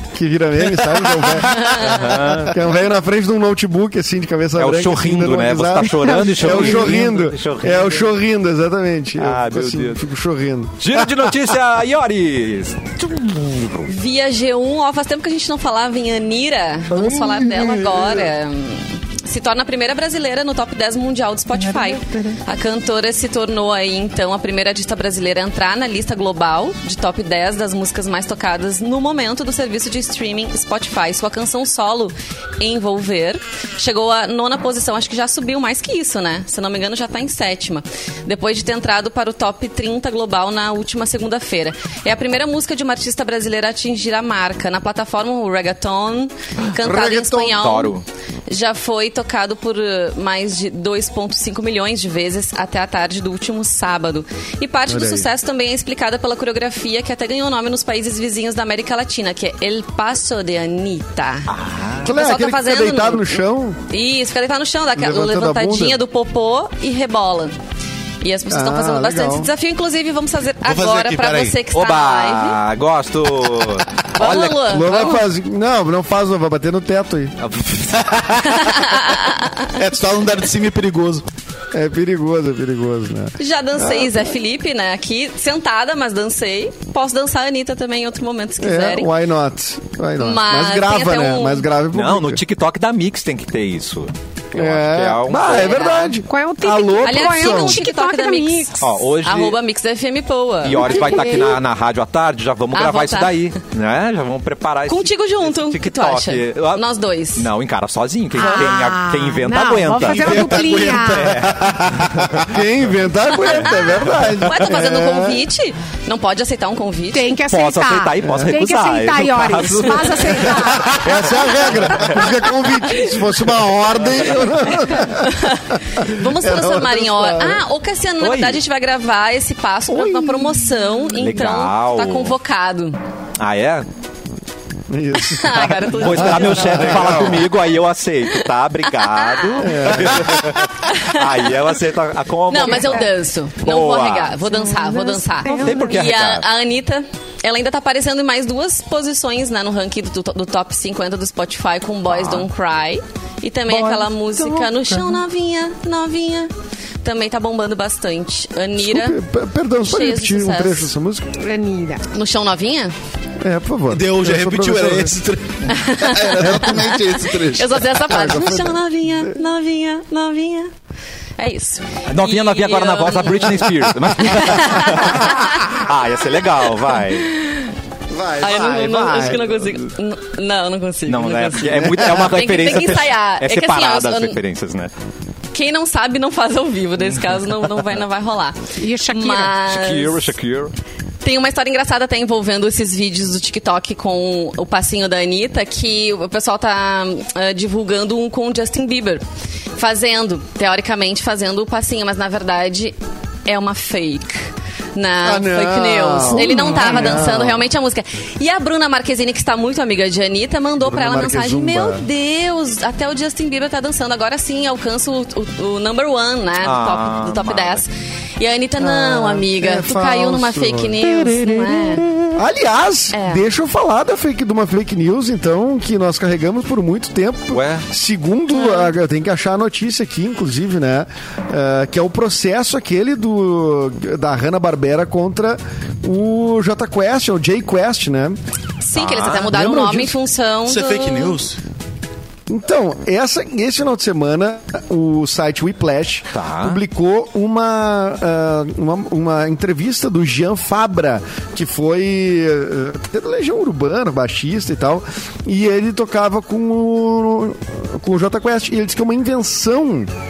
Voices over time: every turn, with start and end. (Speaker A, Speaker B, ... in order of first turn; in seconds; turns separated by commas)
Speaker A: 0.1-11.3, Speaker B: 1.6-2.0, Speaker C: 1.8-2.5, Speaker C: 4.6-8.1, Speaker C: 9.2-10.0, Speaker C: 10.8-13.9, Speaker B: 13.8-61.5, Speaker C: 16.9-17.7, Speaker A: 17.6-18.1, Speaker A: 46.8-47.6, Speaker C: 47.5-48.0, Speaker A: 54.9-55.3, Speaker C: 61.5-62.1, Speaker A: 62.0-63.8, Speaker B: 62.1-67.5, Speaker A: 65.0-66.0, Speaker B: 68.2-72.6, Speaker A: 68.5-69.5, Speaker D: 70.6-71.6, Speaker C: 71.7-75.1, Speaker B: 74.1-75.2, Speaker A: 74.6-77.4, Speaker C: 77.4-78.4, Speaker D: 78.0-78.4, Speaker B: 78.6-79.7, Speaker D: 79.8-81.2, Speaker A: 81.7-84.2, Speaker B: 83.4-89.1, Speaker A: 88.6-92.4, Speaker B: 90.2-91.7, Speaker C: 91.9-96.0, Speaker A: 94.5-97.8, Speaker B: 95.4-96.2, Speaker E: 96.2-98.9, Speaker B: 97.0-101.6, Speaker C: 98.8-99.6, Speaker C: 100.6-112.0, Speaker B: 102.7-103.4, Speaker B: 104.9-107.5, Speaker E: 108.3-111.3, Speaker B: 108.4-108.7, Speaker D: 110.0-112.5, Speaker A: 112.4-115.4, Speaker B: 113.3-117.3, Speaker E: 117.1-121.1, Speaker C: 117.5-122.3, Speaker A: 118.2-118.5, Speaker A: 120.7-127.6, Speaker B: 125.0-133.0, Speaker C: 128.2-128.6, Speaker A: 129.9-130.5, Speaker C: 131.1-132.4, Speaker C: 133.4-133.8, Speaker A: 134.9-137.5, Speaker B: 135.2-137.5, Speaker C: 135.8-144.4, Speaker B: 138.9-139.8, Speaker A: 139.6-140.5, Speaker B: 140.8-141.5, Speaker B: 142.5-159.2, Speaker E: 144.5-146.0, Speaker C: 145.5-146.4, Speaker C: 152.1-152.5, Speaker A: 153.7-155.0, Speaker A: 158.8-161.3, Speaker B: 159.8-160.9, Speaker E: 161.4-162.1, Speaker B: 162.1-162.9, Speaker A: 163.4-165.1, Speaker D: 163.9-167.8, Speaker B: 165.7-170.7, Speaker A: 166.3-166.8, Speaker A: 168.1-169.3, Speaker B: 171.4-175.8, Speaker C: 172.1-177.3, Speaker B: 176.6-177.7, Speaker A: 178.1-179.7, Speaker B: 178.4-184.4, Speaker C: 181.1-184.9, Speaker B: 185.5-190.3, Speaker E: 188.8-189.6, Speaker C: 189.6-190.7, Speaker B: 191.2-199.2, Speaker B: 199.8-204.4, Speaker B: 204.9-222.0, Speaker A: 205.2-207.6, Speaker E: 206.5-206.9, Speaker A: 210.8-212.1, Speaker C: 216.6-217.8, Speaker A: 218.8-221.0, Speaker C: 221.0-222.2, Speaker A: 222.3-238.4, Speaker B: 223.1-223.4, Speaker C: 227.5-227.8, Speaker B: 228.6-228.9, Speaker B: 238.8-241.4, Speaker C: 238.9-239.9, Speaker A: 239.5-240.1, Speaker D: 240.7-241.6, Speaker A: 242.5-260.1, Speaker C: 246.3-246.8